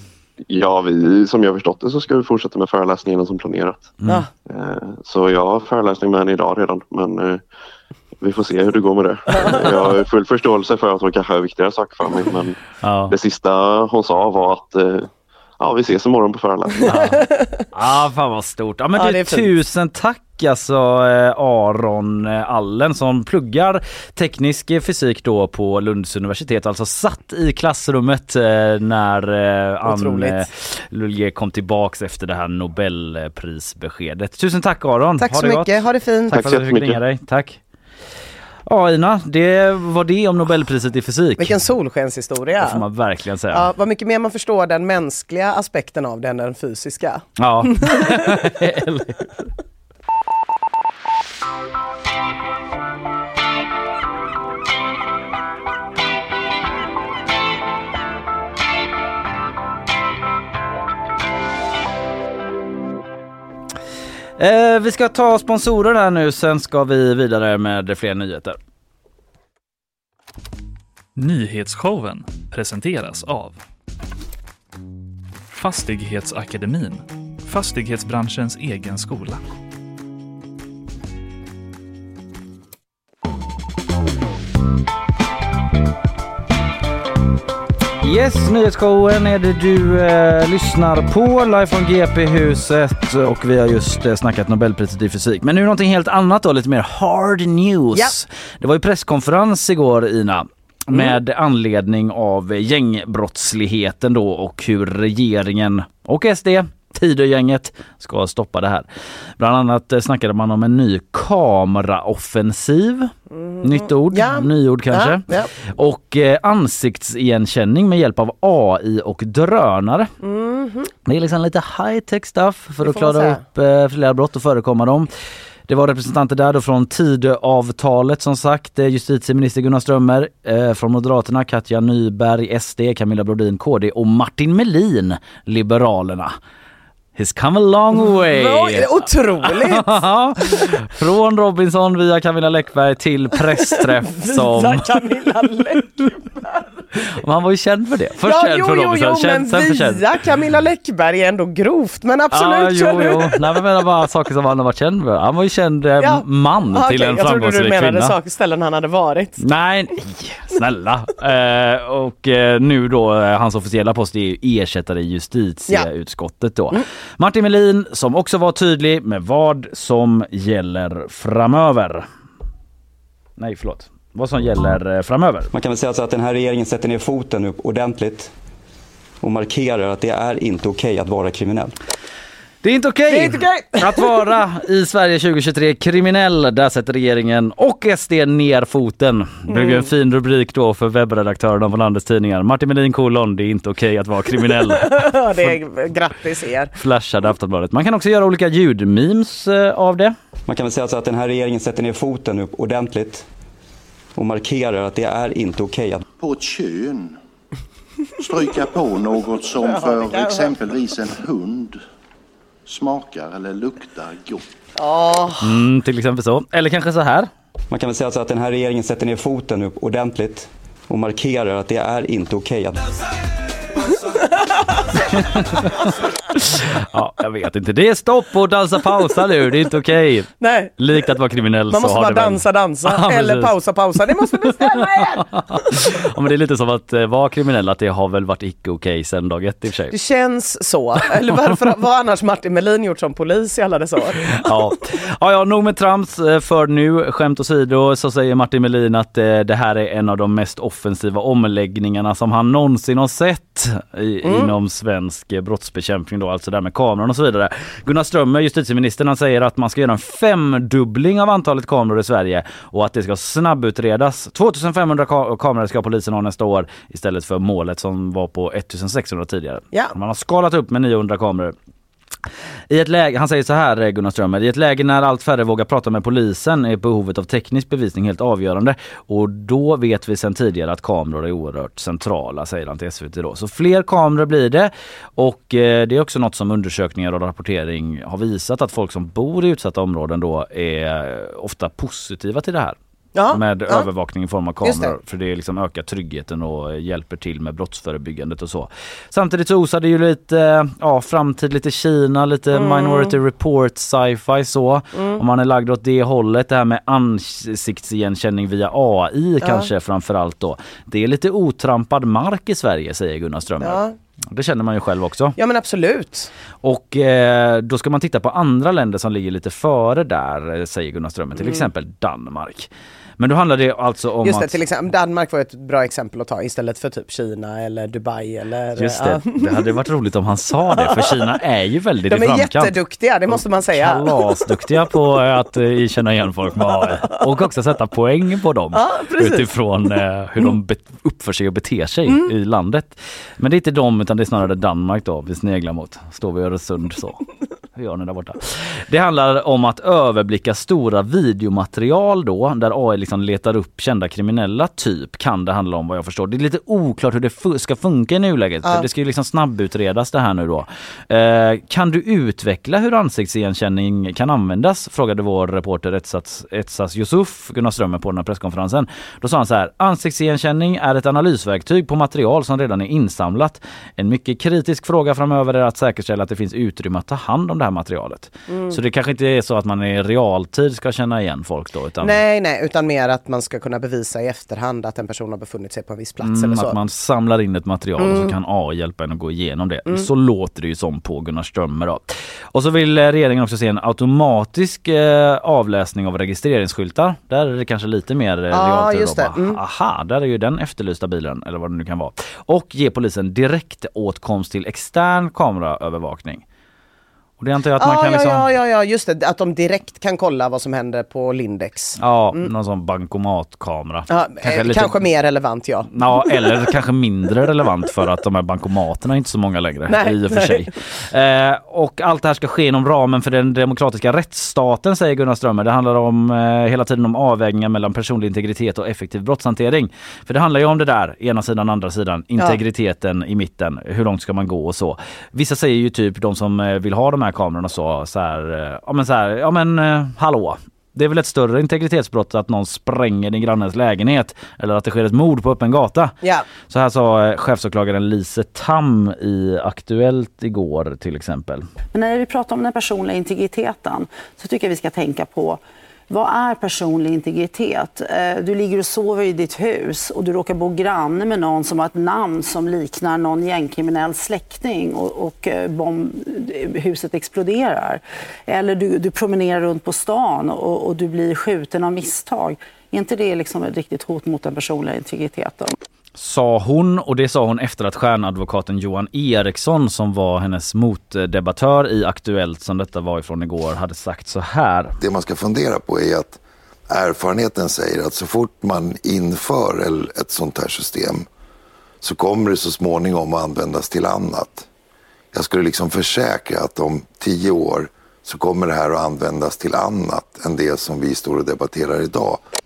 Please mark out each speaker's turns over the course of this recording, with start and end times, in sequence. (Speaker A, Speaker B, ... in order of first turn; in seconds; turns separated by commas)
Speaker A: 0.5-4.0, Speaker A: 4.5-7.4, Speaker A: 8.2-15.1, Speaker B: 9.4-9.6, Speaker C: 12.8-13.1, Speaker A: 15.6-17.0, Speaker C: 16.9-35.8, Speaker B: 18.9-19.5, Speaker B: 29.9-30.5, Speaker B: 35.2-36.4, Speaker C: 36.3-37.6, Speaker A: 36.3-37.0, Speaker C: 38.7-41.6, Speaker B: 41.4-42.8, Speaker C: 42.6-43.7, Speaker B: 43.5-48.5, Speaker C: 47.4-49.3, Speaker C: 64.4-68.6, Speaker D: 71.2-73.6, Speaker D: 75.5-79.4, Speaker C: 88.0-108.9, Speaker C: 109.4-120.1, Speaker B: 113.3-115.5, Speaker B: 120.2-120.9, Speaker C: 121.0-125.1, Speaker B: 122.8-123.4, Speaker C: 125.7-136.3, Speaker C: 137.2-138.9, Speaker B: 138.1-140.0, Speaker C: 139.4-144.9, Speaker B: 143.6-146.7, Speaker C: 147.0-150.0, Speaker B: 148.2-153.6, Speaker C: 152.3-158.2, Speaker B: 156.0-159.4, Speaker C: 159.4-172.1, Speaker C: 173.4-175.5, Speaker E: 175.5-178.3, Speaker E: 179.2-181.7, Speaker C: 182.6-195.5, Speaker B: 183.1-184.2, Speaker B: 189.5-189.9, Speaker B: 194.6-196.7, Speaker C: 196.8-200.2, Speaker E: 200.5-203.3, Speaker E: 204.2-206.1, Speaker F: 206.2-207.2, Speaker F: 208.2-211.8, Speaker B: 209.6-210.5, Speaker F: 212.7-214.5, Speaker B: 214.8-215.6, Speaker C: 215.4-217.3, Speaker E: 217.7-222.8, Speaker B: 224.2-224.8, Speaker C: 225.2-233.5, Speaker B: 230.4-230.9, Speaker B: 231.7-235.8, Speaker C: 234.7-239.9, Speaker B: 239.9-244.4, Speaker C: 244.3-271.6, Speaker B: 254.2-254.5, Speaker C: 272.7-292.8, Speaker B: 293.1-293.9, Speaker C: 293.3-315.4, Speaker B: 294.6-294.9, Speaker B: 302.5-303.1, Speaker B: 304.9-305.2, Speaker B: 309.4-309.7, Speaker B: 313.6-313.9, Speaker B: 315.4-316.3, Speaker C: 316.6-324.6, Speaker B: 321.4-321.7, Speaker B: 324.2-329.6, Speaker C: 328.8-332.8, Speaker B: 330.8-331.1, Speaker B: 332.1-334.3, Speaker C: 333.8-347.2, Speaker B: 338.7-340.5, Speaker C: 347.8-382.2, Speaker B: 378.5-378.8, Speaker B: 382.0-386.8, Speaker C: 386.2-406.4, Speaker B: 388.0-388.3, Speaker B: 398.5-399.6, Speaker C: 407.4-408.5, Speaker B: 407.8-412.5, Speaker C: 412.0-415.0, Speaker B: 414.1-416.7, Speaker C: 415.9-446.1, Speaker B: 419.9-420.7, Speaker C: 446.7-451.7, Speaker G: 451.9-475.8, Speaker C: 476.2-484.9, Speaker H: 485.0-486.4, Speaker H: 486.9-491.3, Speaker H: 492.0-494.7, Speaker H: 495.3-502.4